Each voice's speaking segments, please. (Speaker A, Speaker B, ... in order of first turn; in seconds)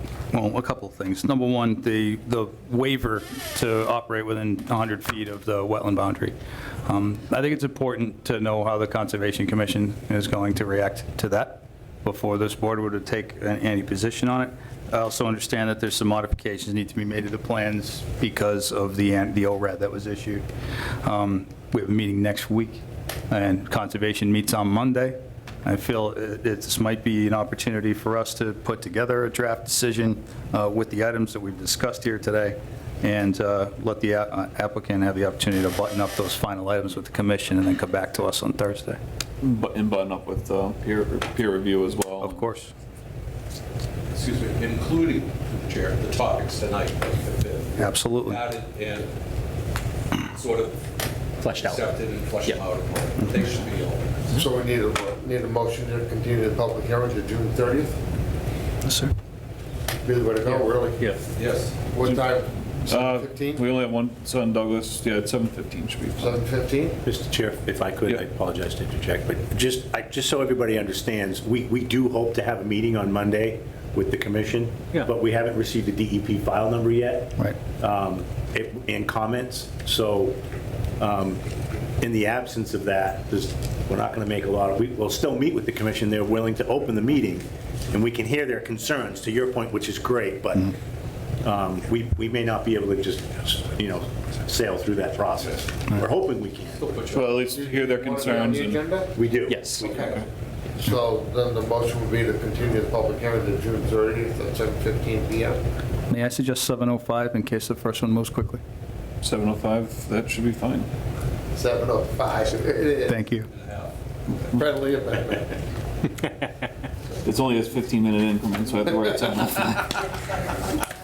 Speaker A: 0.3-20.4, 21.0-39.0, 42.2-42.7, 47.8-48.4, 58.8-59.1, 106.1-108.6, 113.1-113.5
Speaker B: 39.4-42.4, 62.9-66.4, 97.1-98.8, 109.2-110.9, 117.2-120.1
Speaker C: 44.1-49.1, 50.3-50.8, 51.4-54.3, 61.4-61.8, 96.8-97.3, 99.8-100.2, 113.5-113.9
Speaker D: 51.4-51.8, 67.0-80.4, 81.0-81.4, 82.0-90.7, 91.4-96.8, 99.1-100.1
Speaker E: 54.3-58.0, 60.0-61.2, 61.9-63.6, 66.2-67.0, 97.3-99.1, 100.8-105.6, 111.5-113.2, 114.3-115.6